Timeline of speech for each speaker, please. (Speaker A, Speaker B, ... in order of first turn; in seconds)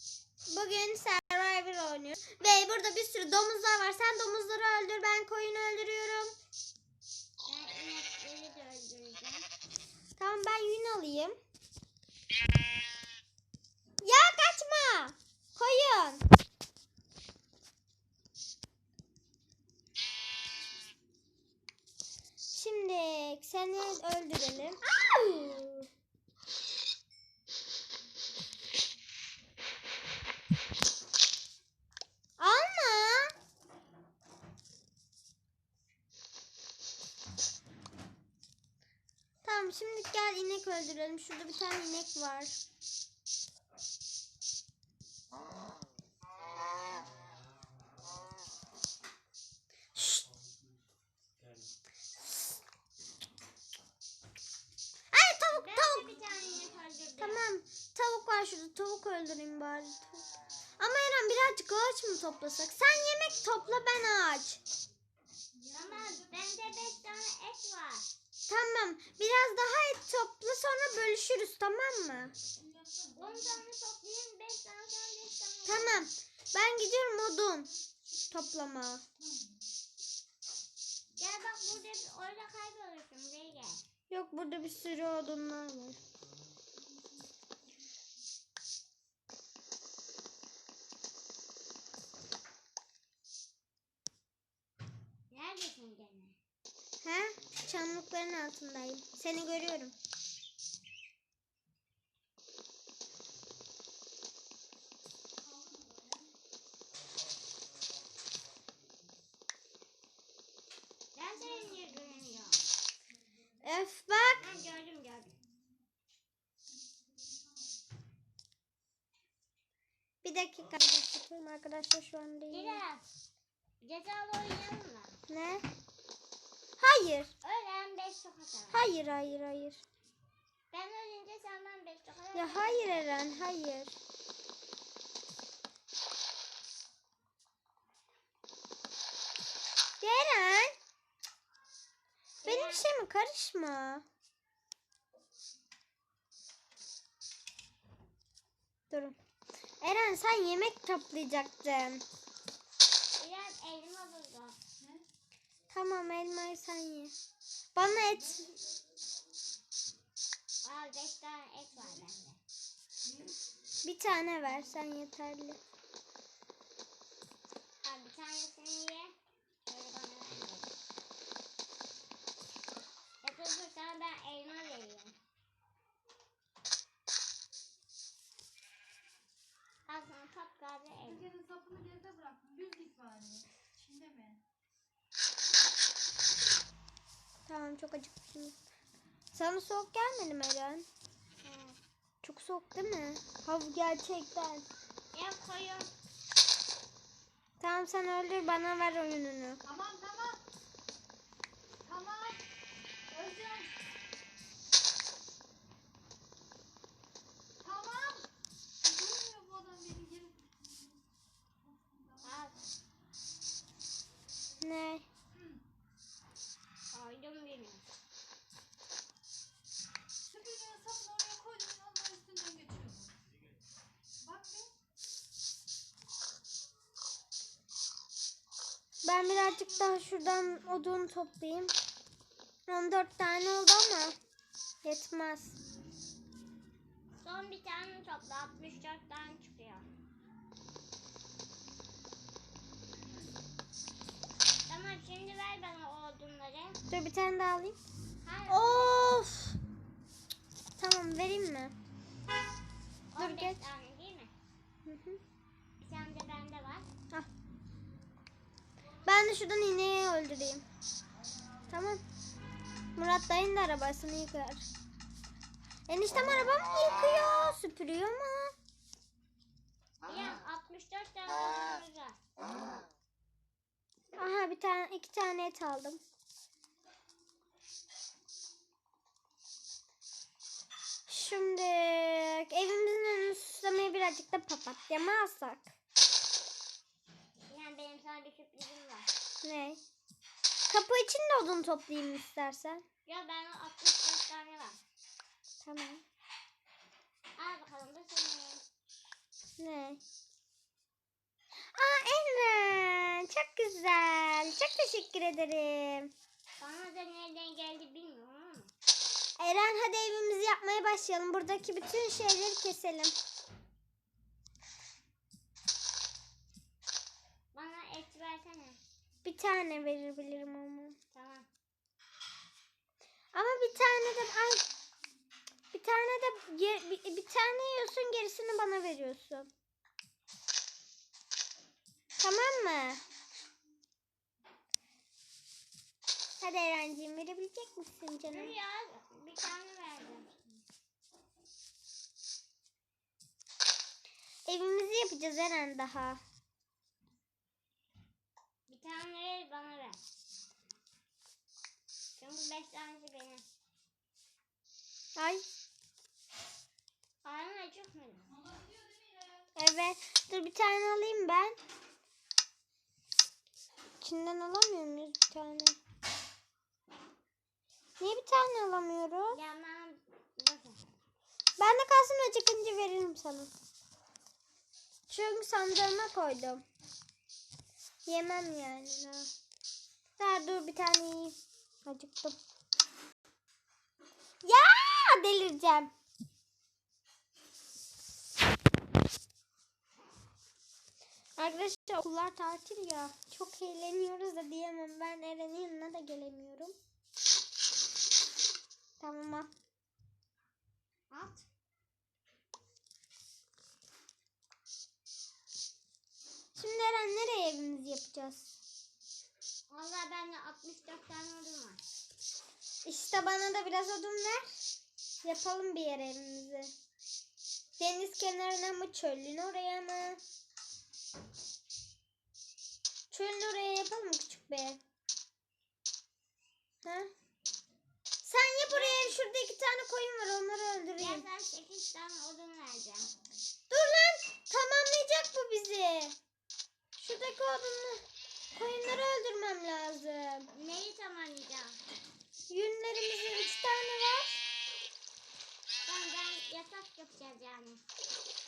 Speaker A: 0.5-6.3, 10.2-11.4, 14.0-16.2, 22.5-25.9, 32.4-33.4, 39.4-42.6, 50.0-50.3, 55.1-56.1, 57.2-60.2, 60.8-64.6, 68.5-72.3, 75.7-77.7, 78.3-79.0, 84.1-86.0, 97.0-100.0, 113.6-114.4, 120.2-122.8, 125.3-125.7, 126.8-127.3, 128.7-129.8, 132.3-134.0, 140.0-140.8, 142.4-144.1, 148.9-149.2, 149.8-152.1, 155.7-157.1, 157.8-158.5, 163.8-165.6, 187.5-188.6, 189.3-190.9, 192.2-194.7, 197.6-199.6, 214.6-215.1, 229.0-231.8, 232.7-234.2, 234.8-235.6, 246.9-247.8, 248.5-249.6, 250.8-251.8, 253.2-253.6, 254.8-255.2, 259.0-260.6, 261.7-262.0, 263.0-264.7, 265.9-268.6, 274.2-276.0, 281.1-285.7, 289.4-289.8, 290.7-292.8, 295.6-296.0, 299.6-300.0, 301.6-306.1, 309.4-313.1, 319.2-321.0, 323.3-324.6, 325.7-329.5, 332.2-333.0, 336.4-338.5, 344.5-346.2, 355.2-355.4, 359.6-361.6, 364.0-365.8, 368.0-369.4, 371.6-373.5, 375.1-376.6, 378.1-379.3, 380.2-382.4, 384.4-385.9, 391.4-396.8, 399.0-399.5, 406.6-408.6, 412.8-414.6, 415.2-416.7, 417.8-420.2, 423.1-424.8, 426.8-427.1, 428.2-431.2, 433.7-436.2, 437.0-440.5, 442.5-444.4
Speaker B: 7.5-9.5, 55.5-57.4, 65.7-68.1, 73.2-76.1, 81.2-83.8, 95.3-96.4, 111.2-112.6, 114.4-115.4, 122.5-123.0, 123.8-125.2, 127.4-128.8, 130.7-133.0, 142.4-142.9, 153.2-154.6, 160.7-162.4, 167.8-169.1, 169.7-170.7, 173.2-175.2, 179.9-181.2, 191.4-191.8, 195.1-195.9, 212.2-212.6, 216.9-217.9, 237.2-239.9, 244.7-246.8, 248.2-249.0, 253.1-254.3, 255.8-256.9, 270.1-272.2, 287.5-289.1, 293.1-294.8, 297.4-298.6, 306.6-308.7, 317.5-318.8, 321.1-321.5, 338.3-340.5, 348.7-350.0, 352.2-353.4, 357.2-358.3, 369.3-370.9, 401.1-401.5, 409.7-411.8, 428.7-429.2, 431.0-433.1, 440.6-441.8, 445.9-447.8
Speaker C: 65.6-66.3, 72.6-73.2, 79.2-79.5, 105.5-105.9, 181.1-184.4, 199.7-200.4, 201.8-202.4, 203.1-203.7, 207.6-208.3, 208.8-210.7, 211.7-212.2, 215.3-215.6, 220.3-223.1, 224.2-224.7, 358.4-359.4